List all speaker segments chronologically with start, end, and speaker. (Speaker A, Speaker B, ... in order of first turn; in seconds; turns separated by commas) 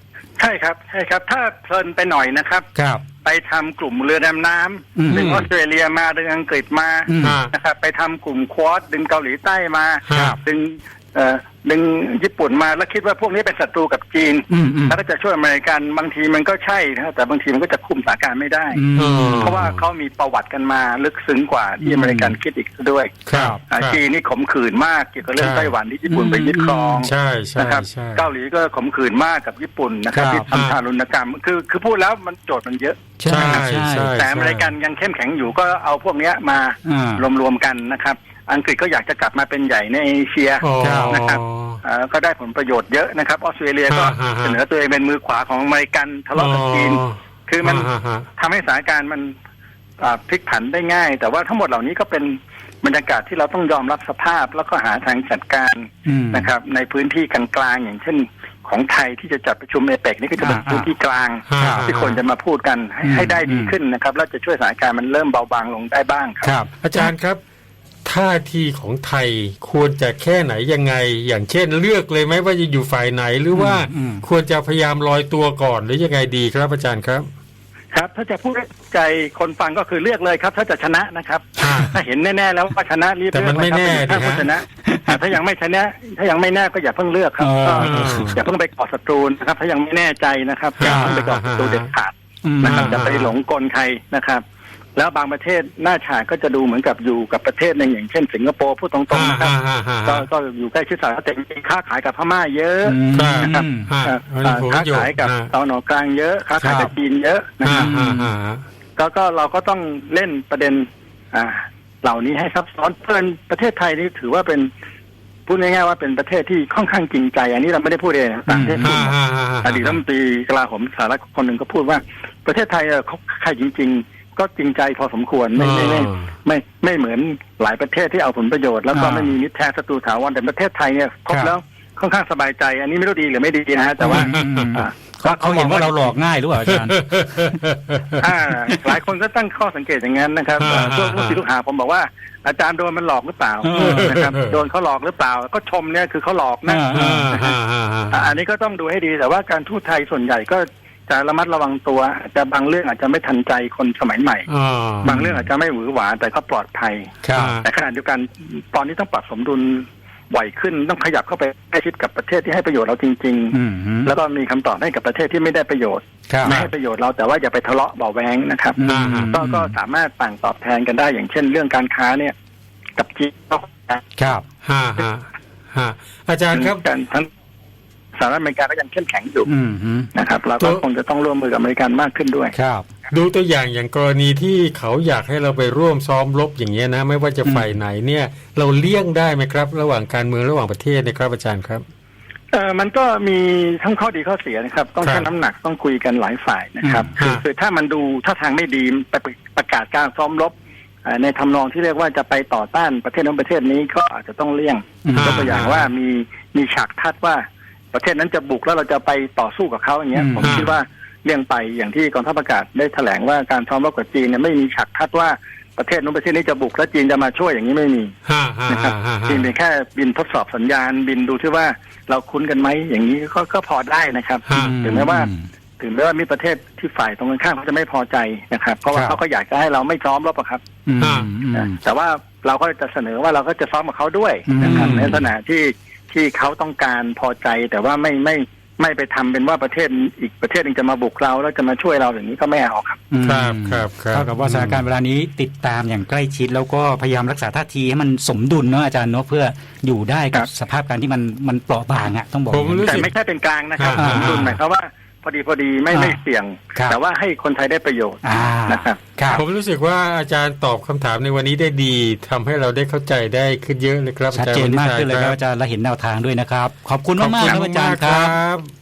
Speaker A: 0.4-2.7, Speaker B: 2.7-3.0, Speaker A: 3.2-18.8, Speaker B: 5.0-5.4, Speaker C: 5.1-5.5, Speaker B: 7.1-7.4, Speaker C: 7.2-7.5, Speaker C: 10.1-10.3, Speaker B: 10.1-10.4, Speaker B: 14.5-15.0, Speaker B: 18.7-19.5, Speaker C: 18.9-19.8, Speaker A: 19.4-49.3, Speaker B: 21.8-22.4, Speaker B: 23.3-23.6, Speaker C: 23.3-24.0, Speaker C: 25.4-25.7, Speaker B: 26.1-27.0, Speaker C: 27.0-28.2, Speaker B: 30.1-30.5, Speaker C: 30.5-30.8, Speaker B: 33.2-34.1, Speaker C: 33.2-34.7, Speaker B: 36.8-37.2, Speaker C: 40.6-41.8, Speaker B: 40.8-41.2, Speaker C: 43.9-44.6, Speaker C: 46.3-48.3, Speaker A: 50.0-66.5, Speaker B: 56.0-56.5, Speaker B: 60.4-60.9, Speaker C: 61.5-62.2, Speaker B: 61.6-61.9, Speaker B: 63.0-63.7, Speaker B: 66.4-67.1, Speaker C: 66.8-67.4, Speaker C: 68.0-77.2, Speaker B: 73.5-74.2, Speaker A: 77.9-94.4, Speaker C: 81.6-81.9, Speaker C: 83.3-84.5, Speaker B: 84.8-85.2, Speaker B: 87.4-88.4, Speaker C: 87.6-88.4, Speaker C: 90.8-91.9, Speaker B: 90.8-91.2, Speaker B: 92.4-93.1, Speaker C: 92.6-93.3, Speaker A: 95.0-107.9, Speaker C: 99.1-100.2, Speaker B: 102.8-103.9, Speaker C: 103.1-105.5, Speaker B: 106.6-106.9, Speaker C: 107.6-108.6, Speaker B: 107.7-108.3, Speaker A: 109.0-114.7, Speaker A: 115.5-136.0, Speaker B: 118.5-119.0, Speaker C: 118.8-120.0, Speaker C: 125.5-126.3, Speaker B: 128.9-129.3, Speaker B: 134.0-137.5, Speaker C: 134.1-134.7, Speaker C: 136.7-138.2, Speaker A: 138.2-147.6, Speaker C: 140.6-141.4, Speaker B: 143.6-144.2, Speaker C: 143.8-144.6, Speaker B: 146.7-147.4, Speaker C: 146.9-148.3, Speaker A: 148.1-154.5, Speaker C: 154.5-155.2, Speaker A: 155.0-157.1, Speaker B: 155.0-155.4, Speaker B: 157.2-157.6, Speaker C: 157.3-157.7, Speaker A: 157.6-172.3, Speaker B: 163.5-164.1, Speaker B: 166.3-166.5, Speaker B: 168.8-169.7, Speaker C: 168.8-169.3, Speaker A: 172.9-174.1, Speaker B: 174.2-174.4, Speaker C: 174.6-176.8, Speaker A: 176.5-177.3, Speaker A: 178.2-179.5, Speaker B: 179.4-180.1, Speaker A: 180.1-182.5, Speaker B: 182.5-182.8, Speaker C: 183.1-191.8, Speaker B: 187.4-187.8, Speaker A: 192.5-200.5, Speaker C: 195.0-195.3, Speaker B: 196.8-197.1, Speaker C: 197.2-197.4, Speaker A: 201.0-218.1, Speaker B: 205.0-205.5, Speaker C: 205.1-205.9, Speaker B: 210.1-210.6, Speaker C: 210.4-210.8, Speaker C: 218.2-219.5, Speaker A: 218.7-225.3, Speaker C: 224.5-224.8, Speaker B: 224.5-225.5, Speaker A: 225.8-230.6, Speaker B: 228.9-229.2, Speaker B: 230.8-231.8, Speaker C: 231.0-231.3, Speaker A: 231.5-243.0, Speaker B: 234.5-235.2, Speaker C: 234.6-235.2, Speaker B: 243.1-253.1, Speaker C: 243.2-244.8, Speaker C: 252.5-253.1, Speaker A: 252.8-259.0, Speaker C: 253.8-254.5, Speaker B: 253.9-254.6, Speaker B: 255.9-256.2, Speaker B: 258.2-259.4, Speaker C: 259.3-265.4, Speaker B: 264.3-268.4, Speaker C: 267.2-268.7